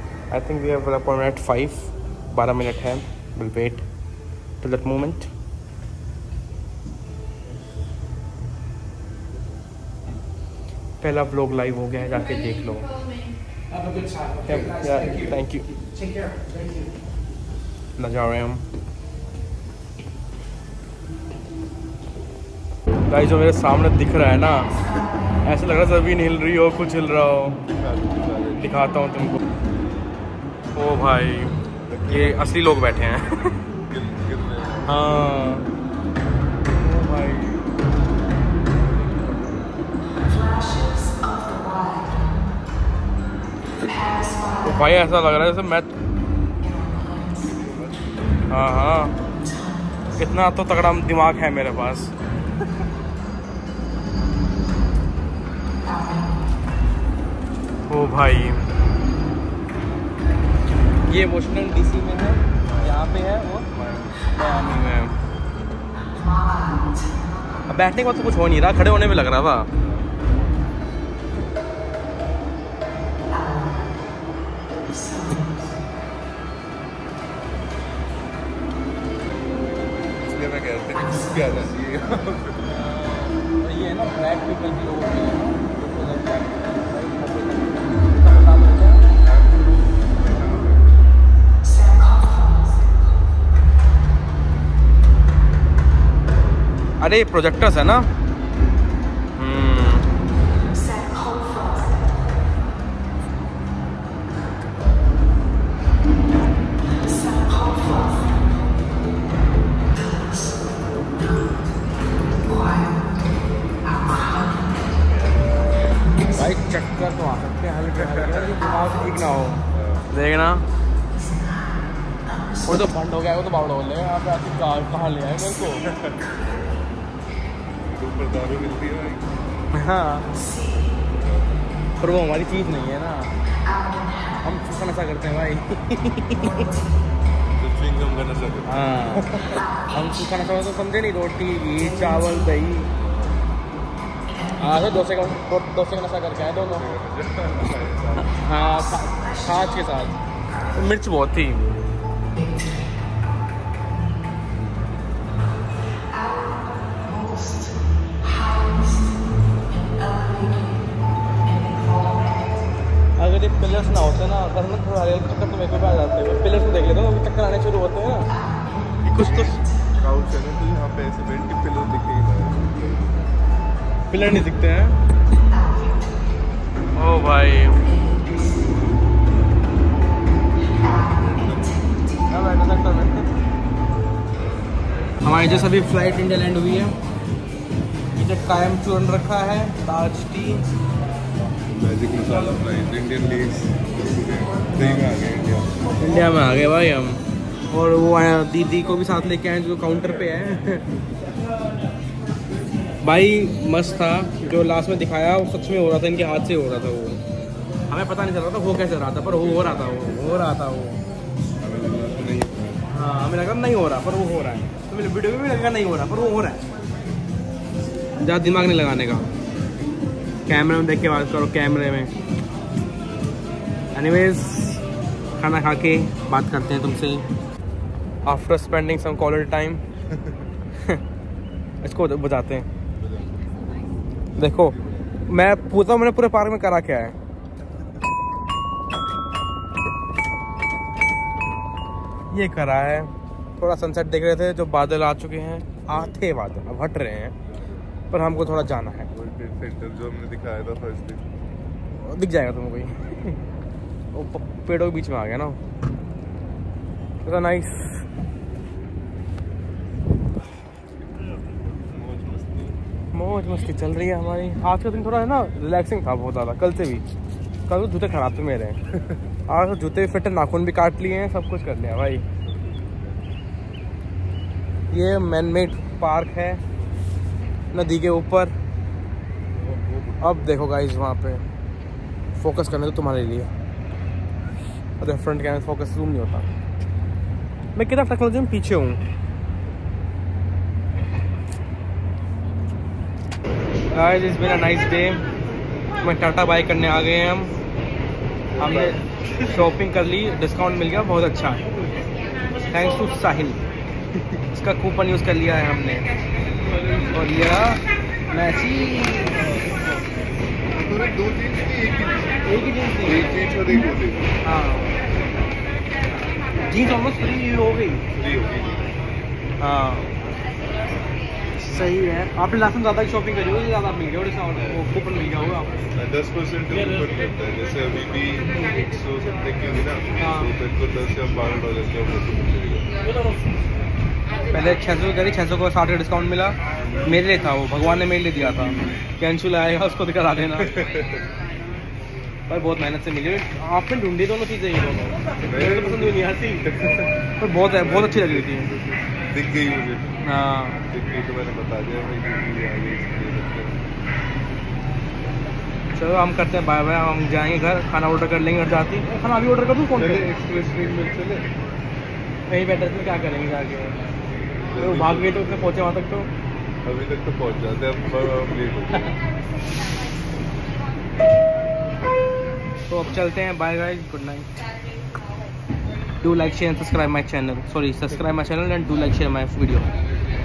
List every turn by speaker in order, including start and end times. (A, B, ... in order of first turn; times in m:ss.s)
0:00.3-0:03.9 A
0:04.6-0:05.3 A
0:11.0-0:12.9 A
0:14.4-0:15.7 A
0:18.0-0:18.6 A
0:23.1-0:24.7 A
0:25.4-0:27.6 A
0:27.7-0:28.8 B
0:28.6-0:29.4 A
0:30.8-0:33.6 A
0:31.9-0:32.6 B
0:33.9-0:35.1 B
0:34.9-0:35.7 A
0:36.8-0:37.6 A
0:38.9-0:39.6 B
0:44.6-0:45.9 A
0:47.4-0:48.1 B
0:48.5-0:49.2 A
0:50.2-0:52.1 A
0:57.9-0:58.6 A
1:01.0-1:03.7 A
1:02.7-1:03.1 B
1:03.7-1:04.1 B
1:04.3-1:05.2 A
1:07.7-1:09.7 A
1:20.0-1:22.7 B
1:22.7-1:29.1 A
1:28.1-1:31.2 B
1:37.0-1:38.1 A
1:39.4-1:40.1 A
1:56.3-2:00.6 A
1:58.0-1:58.5 B
1:59.7-2:00.1 B
2:02.6-2:05.9 A
2:05.9-2:06.1 B
2:07.8-2:09.4 B
2:09.7-2:10.3 A
2:10.9-2:11.7 B
2:12.0-2:13.3 A
2:14.4-2:16.7 A
2:17.6-2:18.9 B
2:18.7-2:22.9 A
2:22.9-2:23.4 B
2:24.6-2:26.9 A
2:26.7-2:28.4 B
2:28.4-2:30.2 A
2:30.7-2:31.8 A
2:43.2-2:48.3 A
2:49.0-2:49.6 A
2:49.2-2:52.6 B
2:54.1-2:55.0 A
2:57.0-2:57.8 A
3:00.8-3:01.8 B
3:02.3-3:03.3 A
3:05.2-3:07.0 A
3:08.2-3:10.7 A
3:11.7-3:16.4 B
3:16.0-3:20.9 A
3:23.0-3:27.2 A
3:27.9-3:31.0 A
3:29.2-3:30.1 B
3:31.6-3:32.8 B
3:32.9-3:36.6 A
3:38.2-3:39.3 A
3:40.5-3:42.1 A
3:44.0-3:44.8 A
3:45.4-3:47.2 A
3:48.3-3:49.8 A
3:51.8-3:52.7 A
3:53.0-3:53.8 B
3:54.4-3:54.8 A
3:54.4-3:55.2 B
3:55.3-3:57.2 A
4:02.3-4:07.4 A
4:08.1-4:09.1 A
4:09.1-4:11.2 B
4:11.9-4:13.4 A
4:14.1-4:15.6 A
4:17.2-4:18.1 A
4:21.2-4:22.8 B
4:23.1-4:27.1 A
4:27.7-4:28.8 A
4:29.5-4:32.3 A
4:32.4-4:33.2 B
4:34.9-4:36.6 A
4:37.7-4:38.5 A
4:39.6-4:40.5 B
4:40.2-4:41.4 A
4:42.4-4:43.5 A
4:45.0-4:46.5 A
4:47.8-4:49.0 A
4:53.9-4:55.2 A
4:56.0-4:57.6 A
4:58.5-4:59.5 B
4:58.6-5:01.6 A
5:02.7-5:03.6 A
5:04.2-5:04.4 B
5:04.5-5:06.1 A
5:07.1-5:09.6 A
5:10.7-5:12.4 B
5:12.4-5:13.4 A
5:13.0-5:14.4 B
5:14.4-5:14.9 A
5:16.7-5:18.0 A
5:18.1-5:18.9 B
5:19.6-5:20.1 A
5:21.6-5:25.8 A
5:25.9-5:32.9 B
5:30.2-5:30.5 A
5:34.5-5:40.8 A
5:40.6-5:41.2 B
5:42.5-5:46.7 A
5:45.4-5:50.2 B
5:47.4-5:48.7 A
5:50.2-5:50.8 A
5:50.9-5:53.8 B
5:56.0-6:00.3 A
5:59.9-6:01.5 B
6:02.5-6:04.0 A
6:04.7-6:05.8 B
6:04.8-6:06.3 A
6:06.8-6:09.2 B
6:12.9-6:14.5 A
6:16.2-6:19.9 A